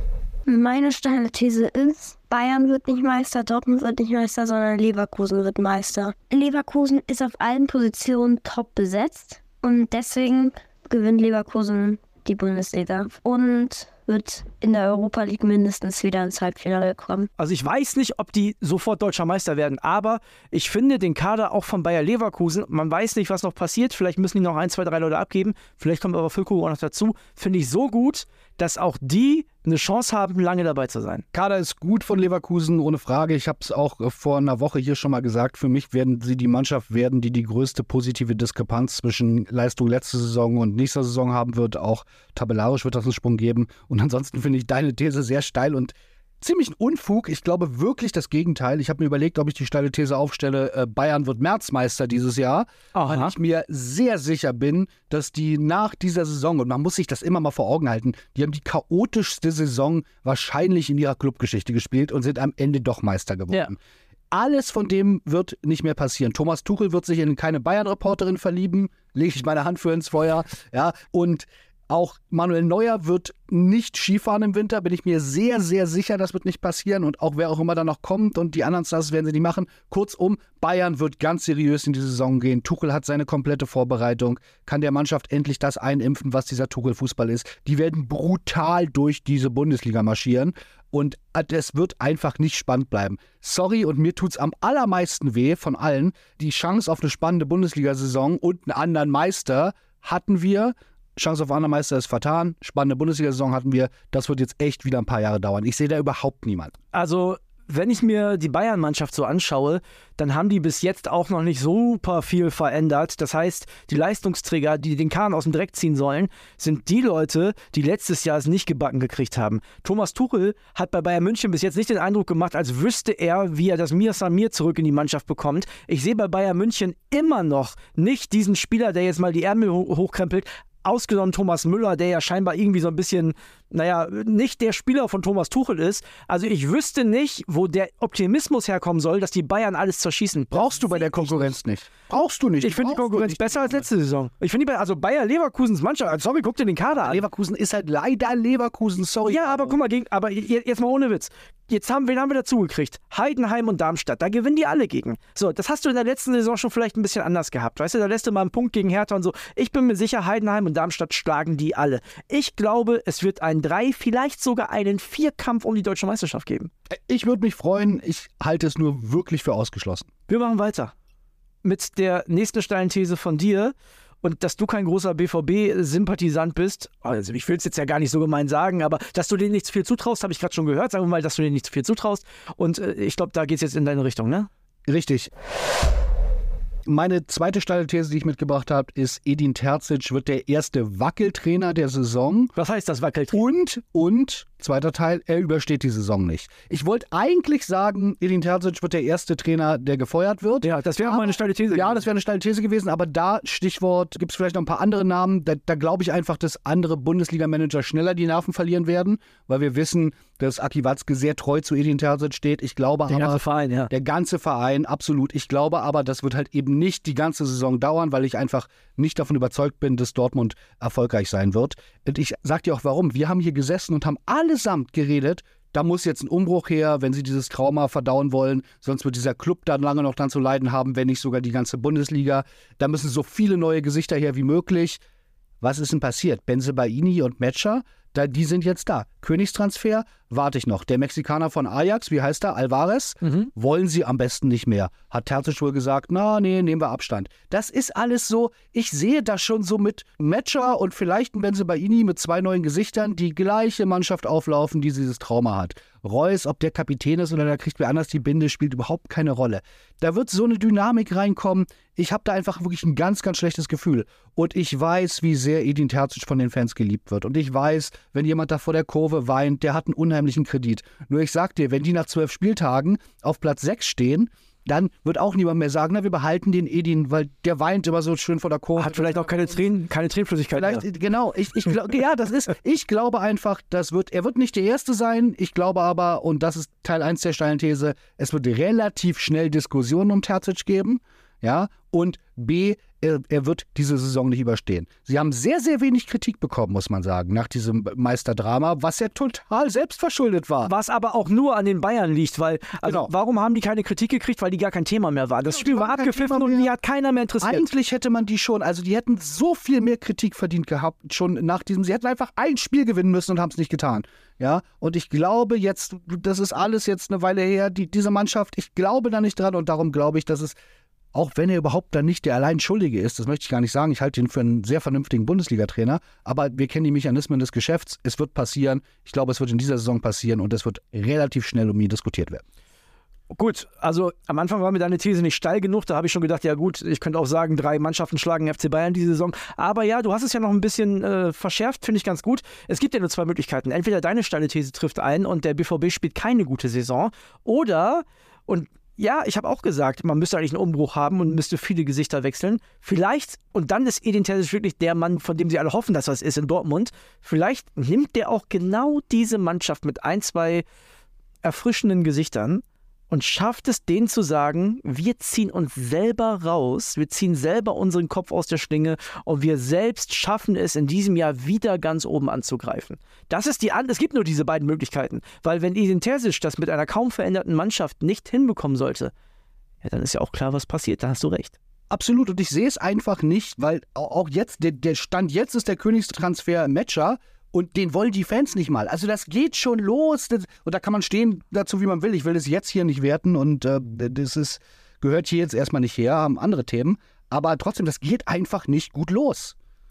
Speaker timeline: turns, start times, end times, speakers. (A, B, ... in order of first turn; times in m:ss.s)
0:00.5-0:17.3 A
0:17.4-0:31.2 B
0:31.3-1:03.8 C
0:52.9-0:53.3 B
1:04.3-1:46.8 C
1:46.9-2:21.5 B
2:20.5-2:23.8 C
2:22.6-2:27.2 B
2:26.9-2:29.8 C
2:29.3-2:46.7 B
2:46.9-2:50.1 C
2:50.3-2:50.9 B
2:51.6-3:04.5 B
3:04.8-3:05.3 C
3:06.8-3:12.5 C
3:12.6-3:13.4 B
3:13.3-3:55.0 C
3:20.6-3:22.0 B
3:33.1-3:33.9 B
3:55.6-4:39.7 C
4:03.2-4:03.5 B
4:38.8-4:40.8 B
4:40.6-5:00.7 C
5:00.7-5:07.7 B
5:02.8-5:03.1 C
5:05.4-5:06.7 C
5:07.4-5:20.6 C
5:21.1-5:32.4 C
5:33.3-6:00.6 B
6:01.4-6:19.1 B
6:19.8-6:21.6 B
6:21.9-6:39.6 C